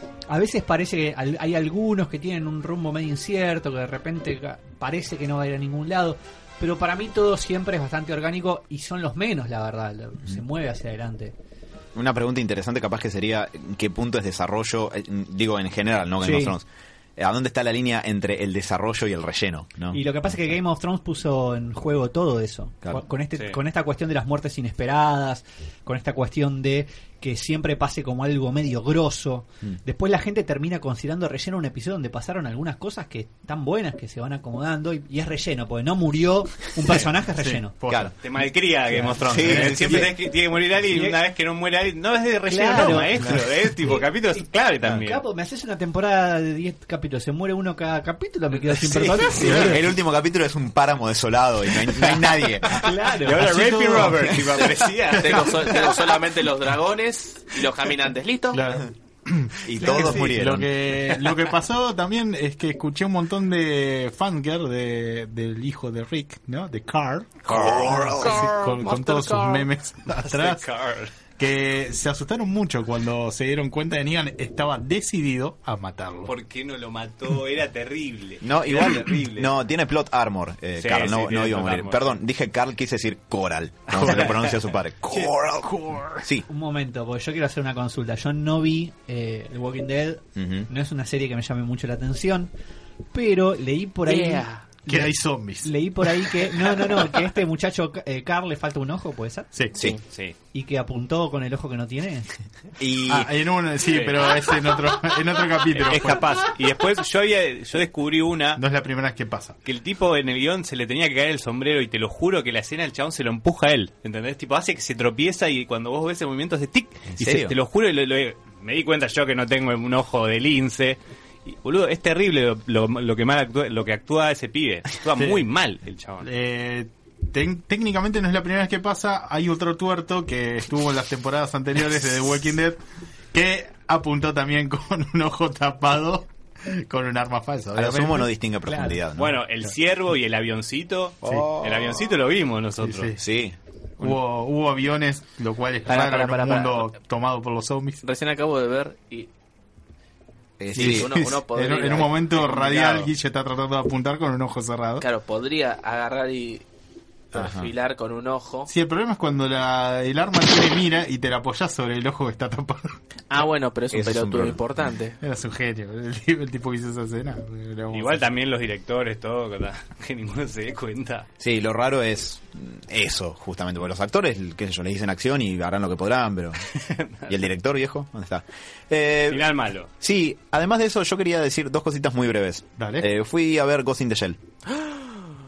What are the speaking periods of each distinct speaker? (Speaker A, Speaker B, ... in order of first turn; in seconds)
Speaker A: 0.3-11.3, 16.2-16.6, 19.9-37.7, 40.9-41.2, 42.5-49.9, 52.7-53.5, 86.5-92.5, 93.1-99.5, 100.5-102.3
Speaker B: 11.9-16.7, 17.2-20.0, 37.9-38.1, 39.3-40.1, 49.3-52.8, 59.6-60.7, 67.5-68.4, 78.4-86.5, 90.4-90.7, 102.8-103.3, 117.1-117.6, 137.8-139.4, 141.2-142.1, 143.2-144.1, 150.6-151.2, 157.3-157.7, 163.9-164.6, 171.4-176.7, 177.3-184.4
Speaker C: 37.4-38.1, 39.0-40.1, 53.3-55.9, 58.5-70.6, 71.4-76.3, 85.8-86.2, 94.9-95.7, 99.5-99.8, 103.1-106.5, 108.6-109.6, 125.2-125.4, 126.2-132.8, 133.3-138.3, 142.8-143.2, 144.0-148.0, 150.8-155.0, 158.7-163.0, 165.2-168.3, 182.8-183.1
Speaker D: 38.2-45.2, 48.7-49.4, 53.2-55.8, 70.1-71.1, 76.3-79.5, 80.8-82.1, 83.9-84.6, 100.1-100.4, 103.8-104.3, 105.7-108.6, 109.6-126.3, 139.1-143.1, 167.9-171.3, 176.7-177.4, 179.3-179.9
Speaker E: 55.2-58.6, 68.2-69.7, 94.1-94.6, 99.8-100.0, 145.9-146.9, 148.0-149.3, 150.7-153.1, 155.0-156.7, 157.3-158.7, 163.3-165.2, 184.7-185.1